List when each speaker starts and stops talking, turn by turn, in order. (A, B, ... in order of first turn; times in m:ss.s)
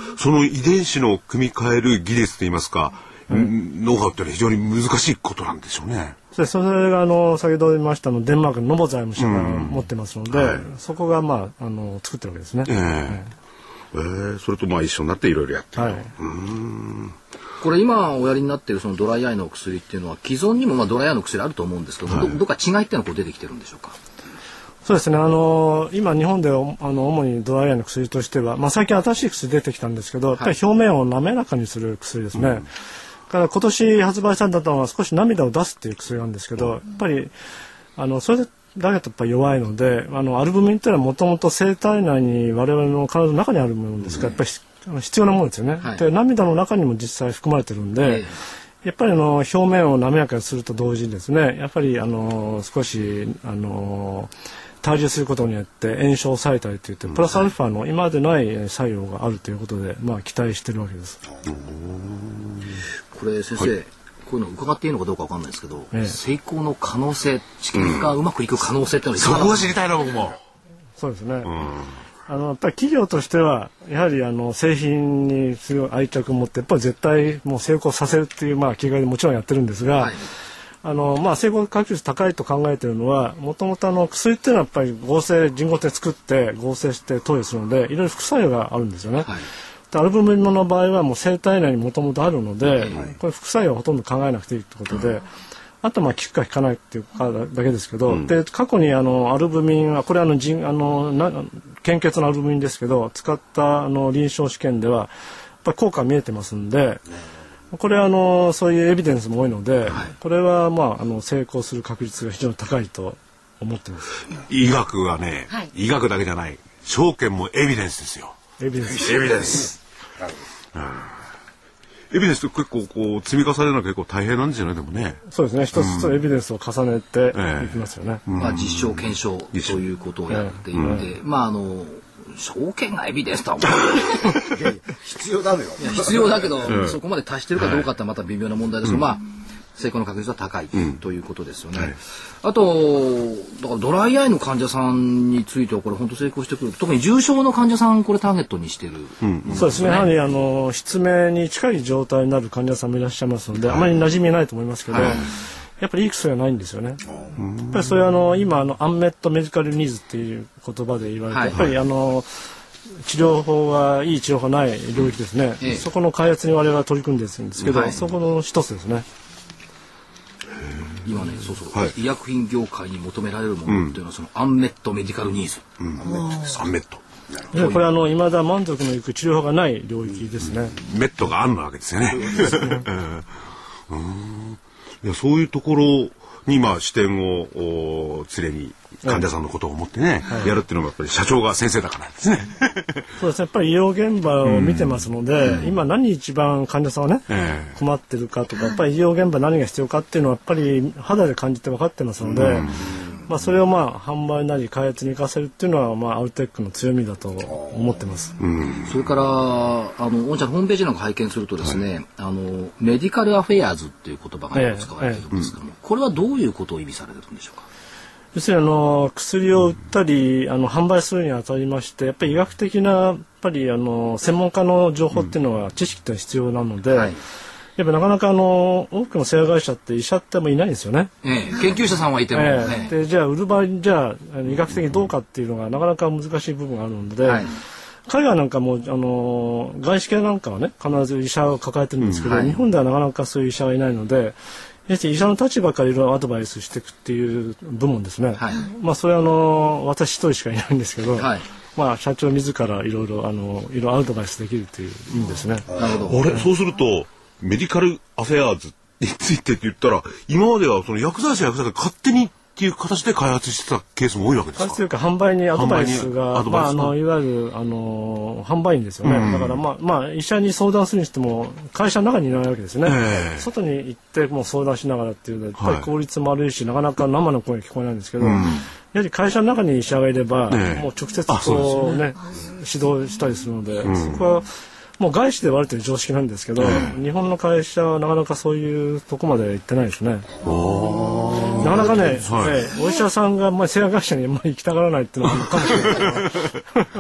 0:00.2-0:06.2 A
0:06.3-0:13.3 B
0:09.2-0:10.7 A
0:12.7-0:13.2 A
0:13.9-0:17.2 A
0:15.8-0:16.1 B
0:17.6-0:24.0 C
0:22.1-0:22.4 A
0:24.8-0:32.7 B
0:33.3-0:37.3 B
0:38.0-0:48.3 B
0:48.0-0:48.3 C
0:48.8-0:54.3 B
0:54.8-1:01.2 B
1:01.4-1:02.8 A
1:03.1-1:09.7 C
1:07.8-1:08.1 A
1:09.2-1:10.4 A
1:11.0-1:11.5 B
1:11.5-1:12.0 A
1:12.3-1:20.1 B
1:20.0-1:20.2 C
1:20.8-1:29.3 B
1:29.9-1:35.2 B
1:32.8-1:33.0 C
1:35.8-1:45.1 B
1:45.6-1:47.0 B
1:47.7-1:54.1 B
1:54.5-1:58.4 A
1:58.6-1:59.6 B
1:58.9-1:59.8 A
2:00.7-2:01.2 A
2:02.1-2:05.2 A
2:05.3-2:08.2 B
2:05.8-2:06.2 A
2:07.3-2:09.8 A
2:08.4-2:14.4 C
2:10.3-2:11.0 B
2:10.8-2:11.0 A
2:14.4-2:16.7 D
2:15.8-2:30.1 C
2:16.7-2:17.0 A
2:17.6-2:17.9 A
2:29.2-2:30.0 A
2:29.5-2:35.2 B
2:34.9-2:35.2 C
2:35.0-2:35.2 A
2:35.8-2:37.0 B
2:37.4-2:37.9 A
2:37.7-2:42.3 B
2:41.3-2:41.6 C
2:43.0-2:49.1 B
2:47.7-2:48.0 C
2:50.7-2:51.0 A
2:51.0-2:55.6 C
2:53.7-2:54.0 A
2:55.8-2:57.8 A
2:57.5-3:00.8 B
3:00.7-3:03.3 A
3:02.3-3:02.8 B
3:03.9-3:13.1 A
3:10.3-3:10.5 B
3:13.2-3:22.7 B
3:14.4-3:15.7 A
3:17.3-3:17.8 A
3:22.3-3:23.0 A
3:23.3-3:28.3 B
3:28.4-3:28.9 A
3:28.9-3:37.7 C
3:34.5-3:35.2 B
3:38.3-3:47.1 B
3:46.9-3:47.2 C
3:47.8-3:51.1 B
3:51.2-3:52.9 C
3:52.3-3:57.5 B
3:54.7-3:55.0 A
3:57.2-3:57.5 C
3:58.1-4:04.4 B
4:02.0-4:02.5 A
4:04.9-4:15.7 B
4:08.4-4:08.7 C
4:11.2-4:11.4 C
4:15.7-4:16.3 C
4:15.8-4:24.8 A
4:24.6-4:50.3 B
4:25.5-4:27.0 A
4:29.0-4:29.6 A
4:32.8-4:33.5 A
4:35.6-4:35.9 A
4:38.2-4:38.7 A
4:40.5-4:42.0 A
4:43.8-4:44.2 A
4:46.6-4:47.0 A
4:50.4-4:52.7 A
4:51.6-4:56.8 B
4:55.6-4:56.5 A